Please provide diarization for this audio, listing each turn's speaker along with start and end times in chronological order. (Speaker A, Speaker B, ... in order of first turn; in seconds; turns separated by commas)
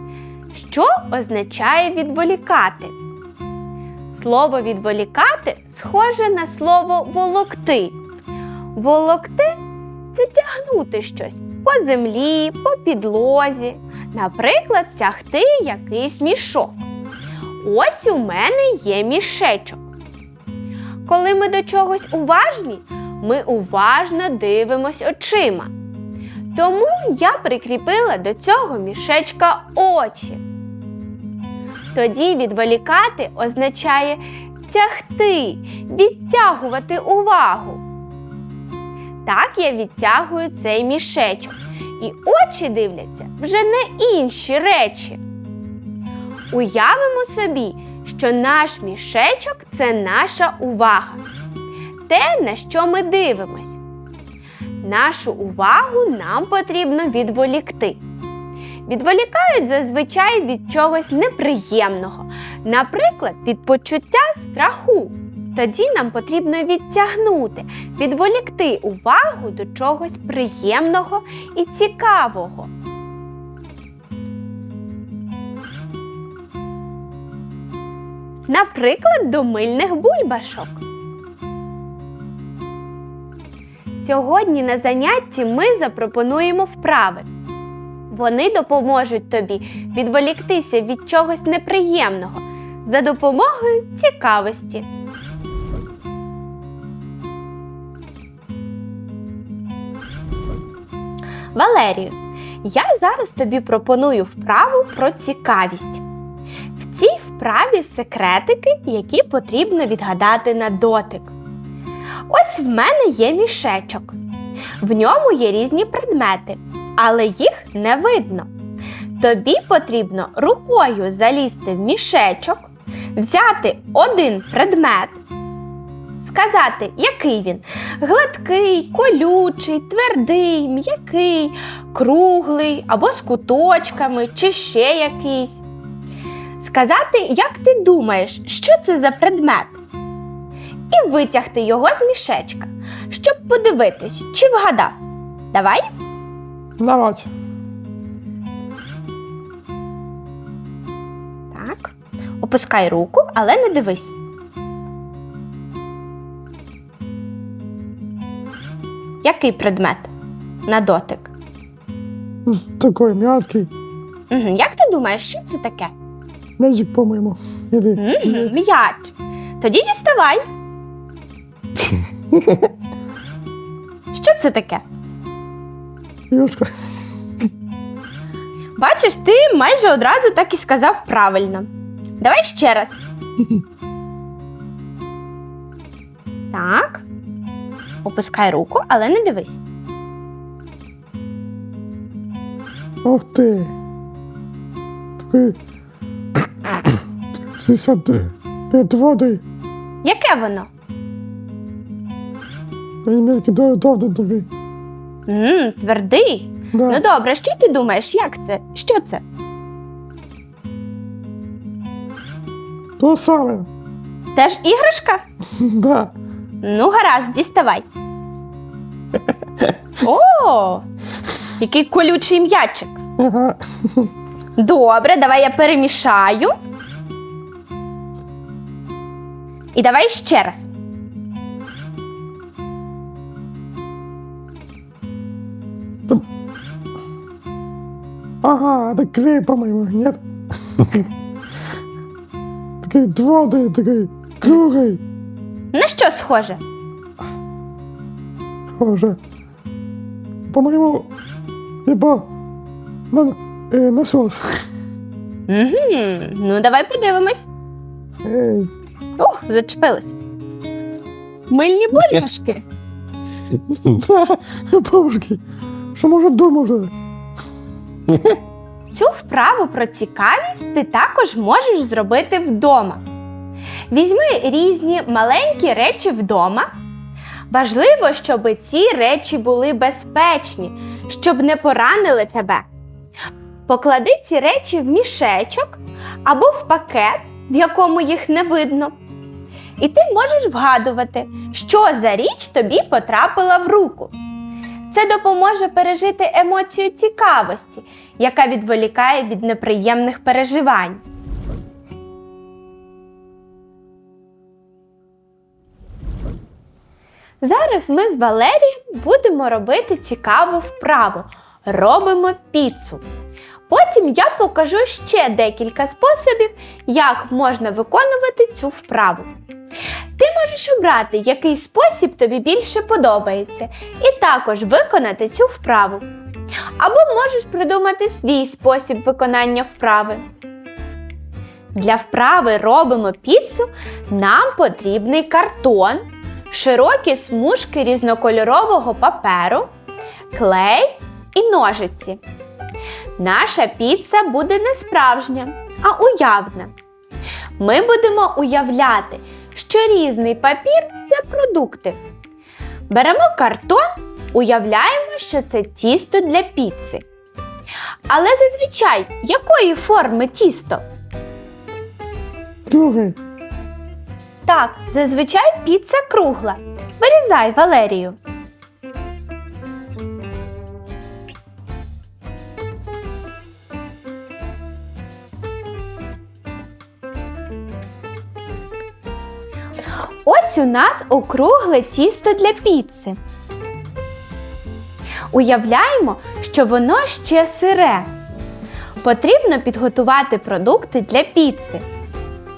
Speaker A: 0.5-2.9, Speaker A: 4.1-8.0, Speaker A: 8.7-9.6, Speaker A: 10.1-16.9, Speaker A: 17.6-19.9, Speaker A: 21.0-25.7, Speaker A: 26.5-30.4, Speaker A: 31.9-37.8, Speaker A: 39.2-45.2, Speaker A: 46.5-51.2, Speaker A: 52.1-53.8, Speaker A: 54.8-58.0, Speaker A: 58.9-72.7, Speaker A: 78.5-80.8, Speaker A: 84.0-87.3, Speaker A: 88.1-94.8, Speaker A: 101.5-106.0, Speaker A: 106.8-111.3, Speaker A: 112.3-114.2, Speaker A: 114.8-118.5, Speaker A: 119.2-125.2, Speaker A: 126.2-135.6, Speaker A: 136.6-139.8, Speaker A: 140.9-145.0, Speaker A: 145.5-145.9, Speaker B: 146.8-147.3, Speaker A: 151.5-154.2, Speaker A: 159.2-160.1, Speaker A: 160.7-161.3, Speaker B: 162.4-163.7, Speaker A: 164.3-165.9, Speaker B: 166.6-168.5, Speaker A: 168.0-170.4, Speaker B: 171.8-172.7, Speaker A: 174.1-174.8, Speaker B: 176.3-176.7, Speaker A: 178.8-181.7, Speaker A: 182.2-183.0, Speaker A: 186.5-187.1, Speaker A: 188.0-189.6, Speaker B: 193.0-193.7, Speaker B: 195.2-195.6, Speaker B: 197.4-199.4, Speaker A: 200.0-200.7, Speaker B: 203.0-204.5, Speaker A: 205.3-209.2, Speaker B: 206.7-207.0, Speaker B: 213.0-213.7, Speaker A: 214.3-215.2, Speaker B: 215.6-216.1, Speaker A: 216.6-217.8, Speaker A: 220.0-220.8, Speaker A: 221.6-223.0, Speaker B: 223.2-224.1, Speaker A: 224.6-226.5, Speaker A: 229.7-230.7, Speaker B: 238.4-240.2, Speaker B: 240.7-241.1, Speaker B: 242.8-245.0, Speaker A: 245.7-246.6, Speaker B: 248.7-249.2, Speaker B: 250.5-251.1, Speaker B: 251.8-252.3, Speaker B: 253.1-254.7, Speaker A: 255.5-257.5, Speaker B: 258.2-258.7, Speaker A: 259.2-260.1, Speaker A: 261.5-262.6, Speaker B: 263.7-265.4, Speaker B: 265.9-266.9, Speaker B: 268.1-268.4, Speaker A: 268.9-273.0, Speaker A: 273.9-276.7, Speaker A: 277.5-282.6, Speaker A: 283.7-288.9, Speaker A: 289.8-294.1, Speaker A: 294.9-301.0, Speaker A: 307.4-313.0, Speaker A: 313.7-319.3, Speaker A: 320.2-326.1, Speaker A: 326.8-330.2, Speaker A: 331.7-339.7, Speaker A: 340.3-342.2, Speaker A: 343.2-346.7, Speaker A: 347.6-352.0, Speaker A: 352.9-357.0, Speaker A: 358.1-360.8, Speaker B: 362.6-363.2, Speaker A: 364.4-368.2, Speaker A: 380.2-383.2, Speaker A: 385.3-388.1, Speaker A: 389.0-391.8